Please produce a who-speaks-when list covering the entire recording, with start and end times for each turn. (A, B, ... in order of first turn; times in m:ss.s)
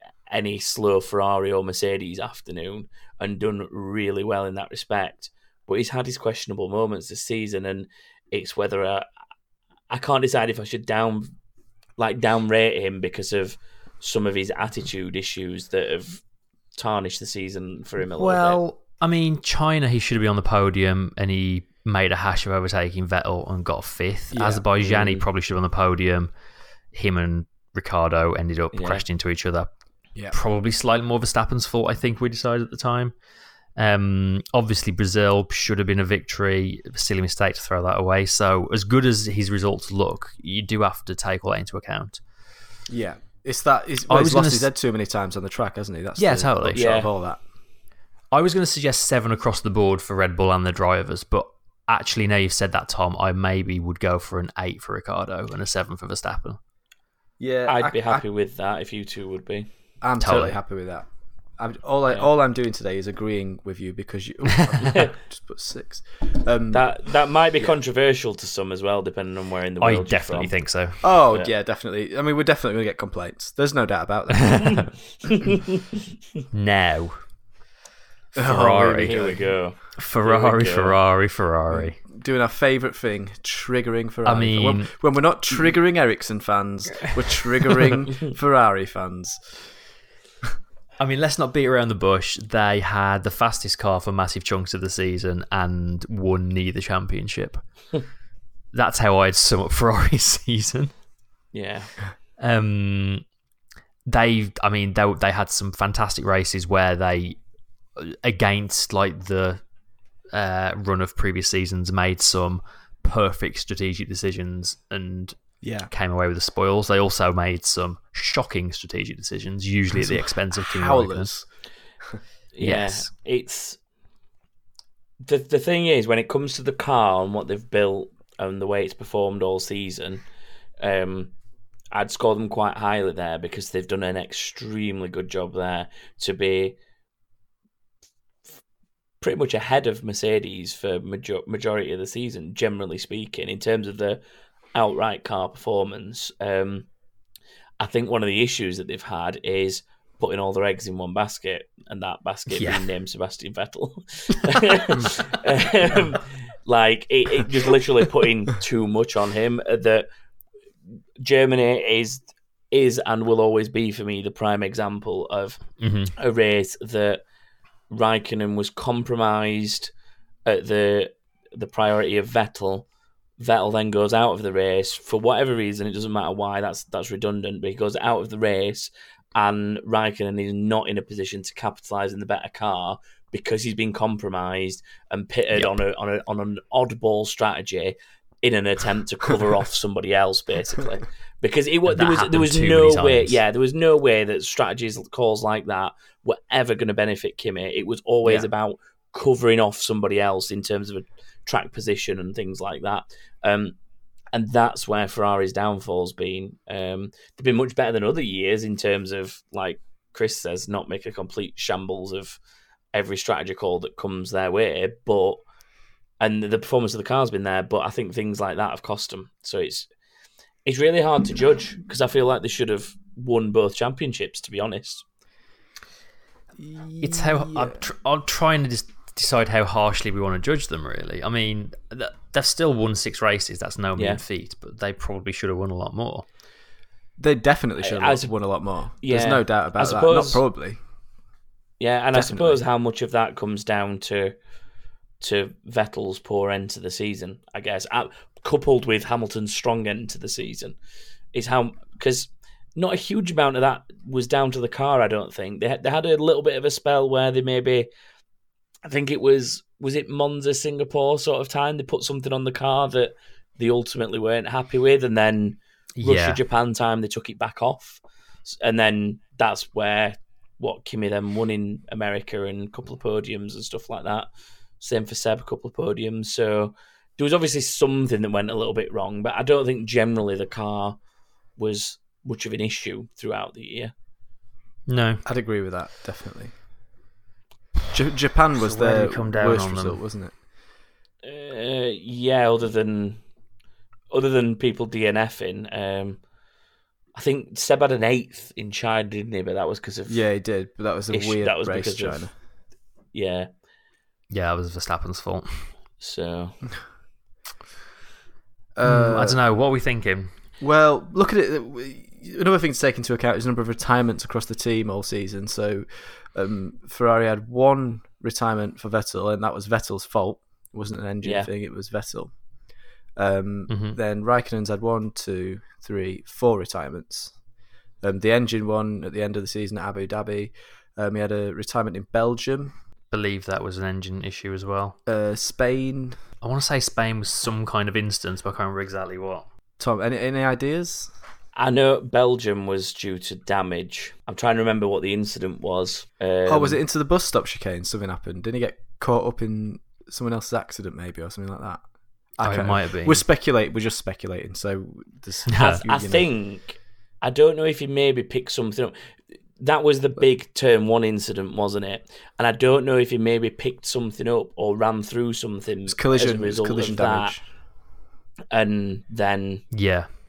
0:00.3-0:09.1 A
0:09.9-0:11.3 A
0:12.0-0:16.2 A
0:16.8-0:18.6 A
0:18.0-0:26.3 B
0:24.3-0:24.6 C
0:24.8-0:25.2 A
0:26.9-0:29.7 B
0:28.7-0:29.0 A
0:30.3-0:33.1 B
0:33.8-0:42.2 B
0:42.9-0:47.4 C
0:44.1-0:44.7 B
0:46.2-0:46.9 B
0:46.7-0:47.1 A
0:48.3-0:56.6 B
0:57.4-0:58.2 C
0:57.7-0:59.7 A
1:00.0-1:06.9 C
1:00.2-1:00.6 B
1:06.7-1:10.5 A
1:09.8-1:11.0 B
1:11.0-1:14.9 C
1:14.5-1:14.8 B
1:15.3-1:15.8 A
1:16.5-1:17.2 B
1:18.4-1:19.4 C
1:18.4-1:19.2 B
1:19.0-1:21.0 A
1:20.0-1:22.0 B
1:21.7-1:29.6 C
1:24.2-1:25.0 B
1:31.0-1:37.6 B
1:38.7-1:40.9 B
1:41.5-1:41.9 A
1:42.4-1:43.2 B
1:44.1-1:47.4 B
1:48.0-1:49.6 B
1:50.3-1:55.4 B
1:55.6-1:55.9 C
1:55.9-2:01.3 B
1:59.9-2:01.5 C
2:02.5-2:03.8 A
2:02.6-2:03.1 B
2:05.2-2:10.2 A
2:10.8-2:11.3 A
2:11.9-2:16.8 A
2:19.2-2:24.2 A
2:24.7-2:26.9 A
2:27.8-2:40.1 A
2:32.5-2:32.8 B
2:41.2-2:47.2 A
2:45.8-2:46.1 B
2:47.9-2:49.9 A
2:50.5-2:52.9 A
2:53.4-3:23.8 A
3:11.9-3:13.4 B
3:18.2-3:18.5 C
3:24.3-3:32.4 A
3:32.9-3:35.4 A
3:36.2-3:39.9 A
3:40.6-3:45.0 A
3:46.6-3:47.8 C
3:47.0-3:56.2 B
3:54.0-3:54.2 A
3:57.2-4:00.8 C
3:57.8-3:58.3 A
3:59.0-4:00.4 A
4:01.8-4:04.4 A
4:02.1-4:02.6 C
4:05.2-4:10.8 A
4:11.3-4:17.9 A
4:18.8-4:41.0 A
4:26.0-4:26.4 B
4:41.6-4:43.9 A
4:44.9-4:45.2 B
4:45.2-4:46.5 C
4:47.9-4:50.3 C
4:48.6-4:50.0 B
4:51.2-4:53.2 A
4:54.1-4:56.2 A
4:57.2-5:00.2 A
5:00.1-5:02.3 C
5:01.1-5:02.3 A
5:03.1-5:03.5 A
5:04.3-5:05.7 B
5:06.0-5:06.6 A
5:08.8-5:09.4 C
5:08.8-5:10.3 B
5:10.6-5:22.4 C
5:21.2-5:21.5 A
5:23.2-5:27.4 C
5:23.7-5:24.0 B
5:28.0-5:32.8 C
5:33.1-5:35.0 B
5:35.1-5:36.2 C
5:36.4-5:39.5 B
5:39.8-5:41.1 C
5:41.6-5:46.8 A
5:46.5-5:51.8 C
5:52.4-5:56.3 C
5:52.4-5:53.2 B
5:55.5-5:55.8 B
5:55.8-6:07.4 A
6:05.9-6:07.4 C
6:08.5-6:09.7 A
6:09.7-6:10.1 B